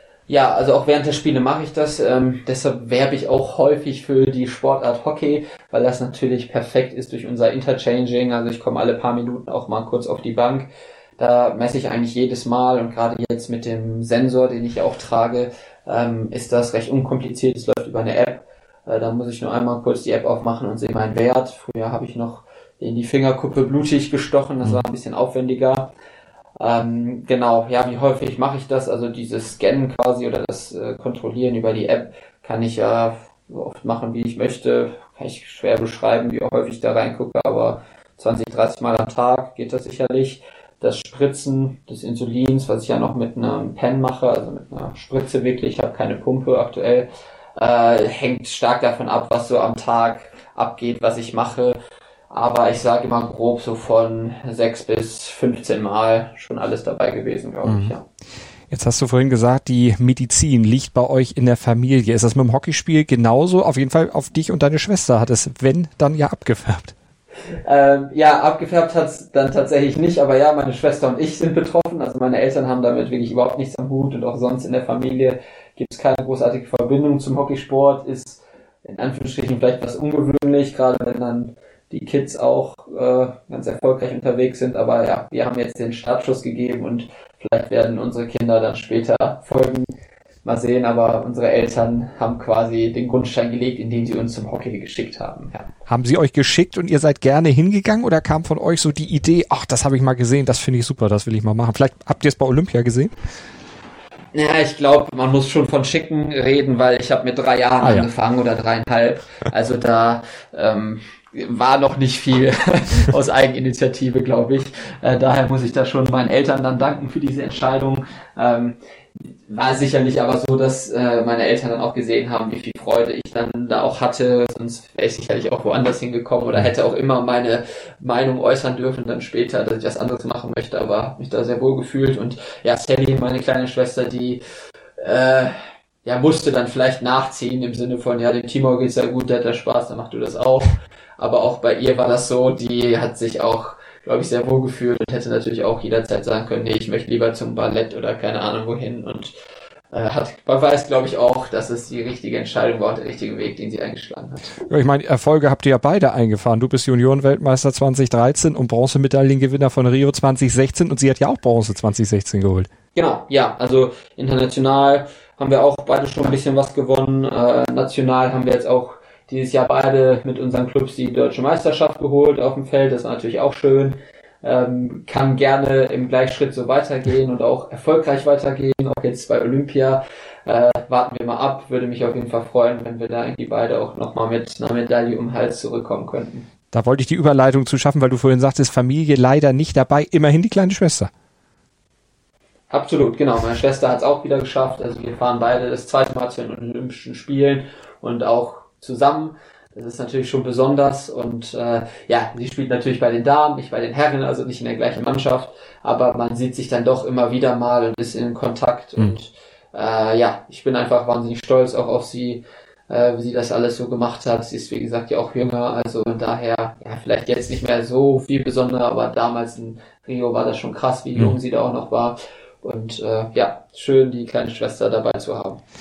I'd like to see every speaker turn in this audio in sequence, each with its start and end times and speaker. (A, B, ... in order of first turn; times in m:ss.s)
0:00.3-0:25.9 A
0:26.6-0:51.8 A
0:52.3-0:58.0 A
0:57.6-0:57.9 B
0:58.7-1:06.9 B
1:07.6-1:29.9 A
1:30.4-1:35.7 A
1:35.9-1:43.1 B
1:44.3-1:58.8 A
1:47.8-1:48.1 B
1:59.5-2:14.4 A
2:15.0-2:29.3 A
2:29.9-2:34.5 A
2:34.7-2:42.7 B
2:42.9-3:06.4 A
3:06.7-3:11.1 B
3:12.7-3:45.6 A